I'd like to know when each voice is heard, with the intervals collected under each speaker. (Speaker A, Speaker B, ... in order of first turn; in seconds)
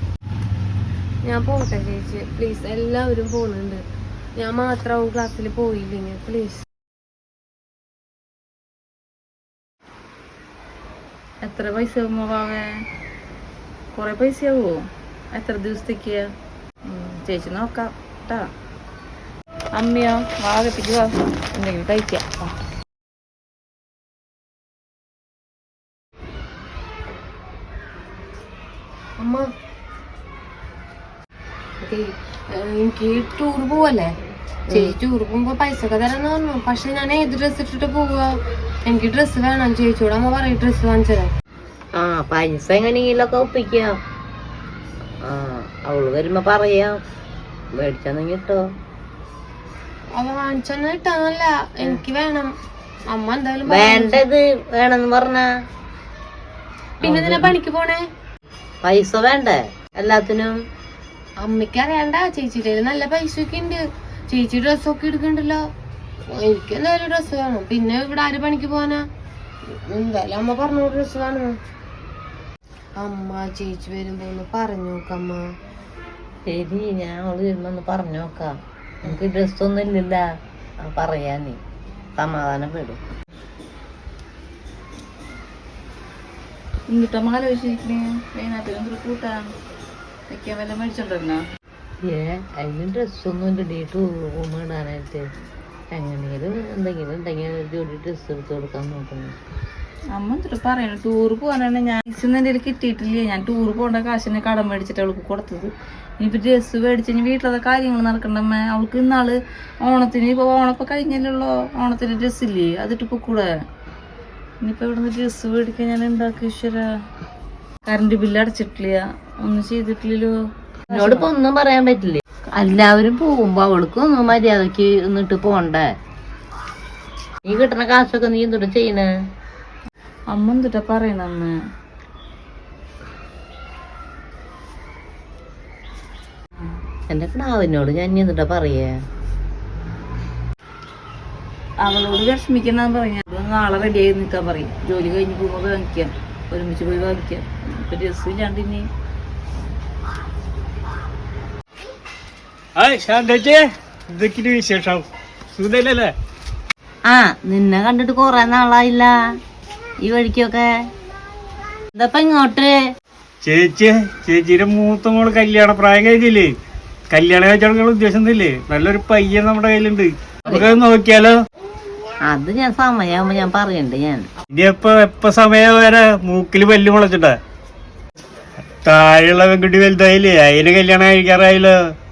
Speaker A: 1.2-3.8, 4.4-6.6, 29.2-29.4, 31.8-34.1, 34.7-38.3, 38.9-41.3, 50.1-52.5, 53.1-54.2, 57.0-58.0, 61.4-65.6, 66.4-69.0, 69.9-71.5, 73.0-75.4
Speaker B: 11.4-12.7, 13.9-16.2, 16.9-18.5, 19.8-22.5, 86.9-89.5, 90.3-91.4, 100.1-113.5, 114.6-116.8, 117.8-120.3, 120.9-121.3, 130.3-131.5, 141.8-148.9
Speaker C: 34.7-35.0, 41.9-44.0, 45.2-47.0, 47.7-48.6, 53.6-55.5, 57.0-57.5, 58.8-60.5, 76.5-80.2, 80.8-81.6, 82.2-83.0, 92.0-95.2, 95.9-99.3, 120.9-125.9, 127.4-129.1, 137.1-139.0, 157.1-159.2, 160.0-160.7, 161.9-162.8, 172.3-174.3
Speaker D: 152.8-156.1, 163.4-166.5, 167.1-171.3, 174.5-177.3, 178.8-181.7